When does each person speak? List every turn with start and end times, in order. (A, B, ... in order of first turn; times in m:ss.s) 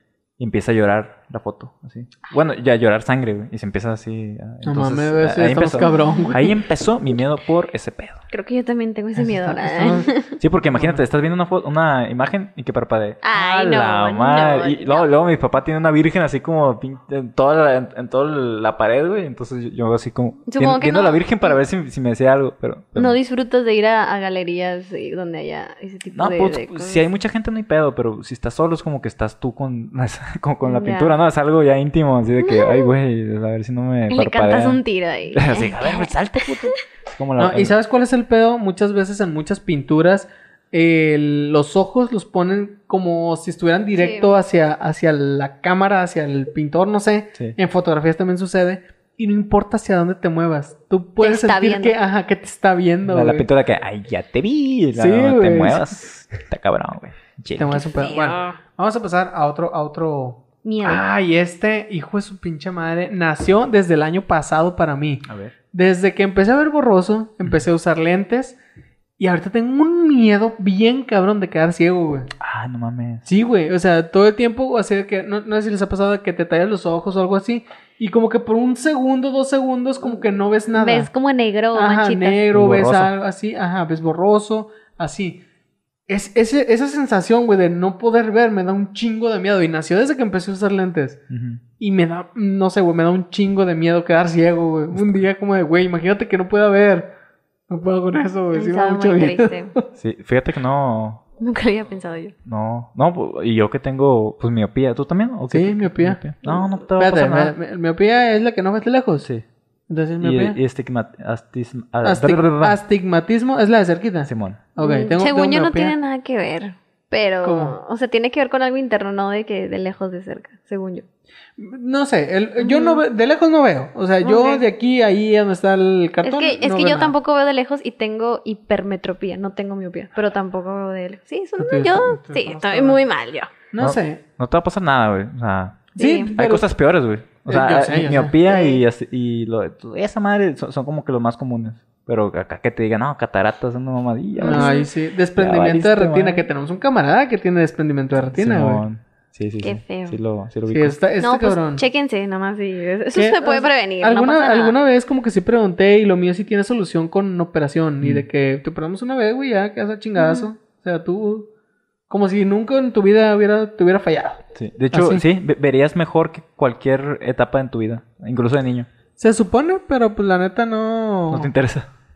0:00.4-0:08.2 A
0:04.6-0:06.5 B
0:05.8-0:06.4 C
0:08.3-0:10.3 C
0:09.2-0:10.1 B
0:10.4-0:23.2 A
0:10.7-0:11.0 B
0:13.2-0:15.1 C
0:20.5-0:21.6 C
0:23.0-0:27.0 C
0:26.1-0:34.8 A
0:30.6-0:31.1 C
0:32.4-0:32.9 C
0:34.1-0:36.1 C
0:35.3-0:37.8 A
0:37.4-0:53.5 B
0:44.0-0:44.3 C
0:51.2-0:52.0 C
0:53.1-0:57.9 A
0:55.0-0:56.0 B
0:57.6-1:08.6 B
0:57.7-0:58.6 C
1:00.6-1:01.0 C
1:05.3-1:05.5 A
1:09.2-1:12.3 B
1:12.4-1:13.3 A
1:13.3-1:21.1 B
1:20.7-1:22.4 C
1:21.7-1:25.4 B
1:22.5-1:23.1 A
1:26.1-1:31.2 B
1:31.3-1:31.6 A
1:31.8-1:37.1 B
1:37.7-1:39.9 B
1:38.5-1:39.7 C
1:40.0-1:41.2 A
1:41.4-1:42.3 C
1:42.4-1:47.5 A
1:45.5-1:49.3 B
1:49.9-1:50.6 B
1:50.2-1:52.8 A
1:52.0-1:56.0 B
1:54.3-1:54.6 A
1:54.8-2:01.0 C
1:57.4-1:57.8 B
2:01.6-2:07.1 B
2:02.6-2:03.0 C
2:04.2-2:04.6 C
2:06.2-2:13.5 C
2:11.6-2:13.0 B
2:13.7-2:14.2 B
2:13.8-2:24.7 A
2:16.0-2:16.3 C
2:16.0-2:16.7 B
2:17.5-2:18.4 B
2:18.4-2:18.8 C
2:24.4-2:24.9 C
2:24.4-2:28.8 B
2:25.4-2:26.5 A
2:28.4-2:31.0 A
2:29.6-2:30.2 C
2:30.7-2:31.8 B
2:31.2-2:34.8 C
2:33.2-2:41.5 B
2:40.2-2:40.5 C
2:42.1-2:45.2 B
2:44.6-2:48.9 A
2:49.2-2:51.5 B
2:51.3-2:51.9 A